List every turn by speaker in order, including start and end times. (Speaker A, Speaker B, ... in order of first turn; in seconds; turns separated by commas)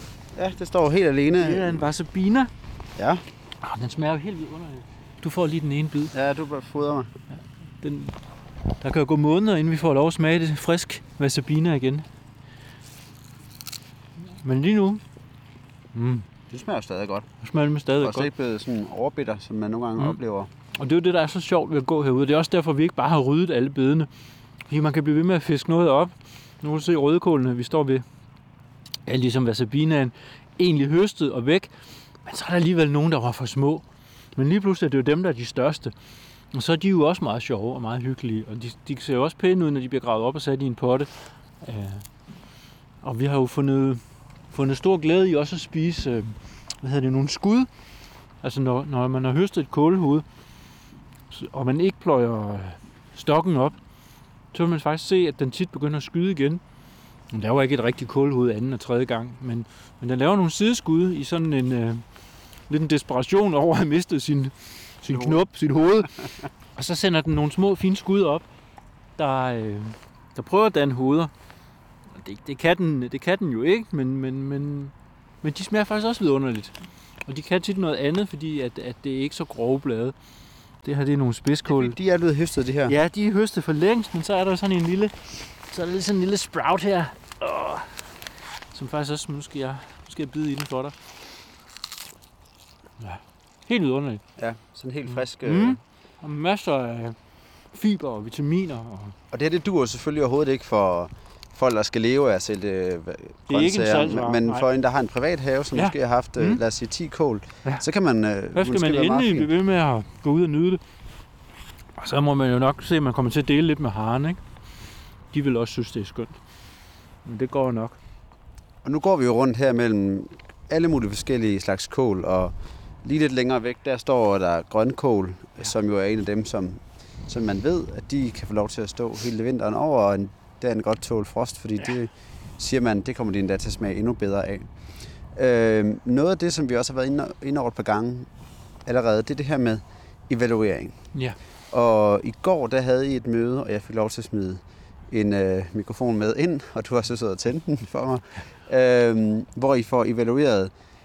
Speaker A: 0.3-1.9, Speaker B: 1.4-2.5, Speaker A: 3.0-3.2, Speaker B: 3.6-6.1, Speaker A: 6.1-7.1, Speaker B: 7.3-12.1, Speaker B: 14.2-15.0, Speaker B: 15.9-16.3, Speaker A: 16.5-17.3, Speaker B: 17.4-18.3, Speaker A: 18.0-20.5, Speaker B: 20.8-24.1, Speaker B: 24.7-28.1, Speaker B: 29.1-35.9, Speaker B: 36.5-50.3, Speaker B: 51.3-53.8, Speaker B: 54.5-56.6, Speaker B: 57.3-68.5, Speaker A: 65.1-65.4, Speaker B: 69.1-71.3, Speaker B: 72.1-80.2, Speaker B: 80.8-82.0, Speaker A: 81.7-83.0, Speaker B: 82.9-88.2, Speaker B: 88.7-91.0, Speaker B: 93.0-94.5, Speaker A: 94.4-95.8, Speaker B: 95.0-99.2, Speaker A: 99.3-109.5, Speaker B: 103.5-104.7, Speaker B: 105.7-106.6, Speaker B: 108.5-110.8, Speaker B: 112.0-114.4, Speaker B: 115.3-118.0, Speaker A: 118.8-150.7, Speaker B: 141.1-141.4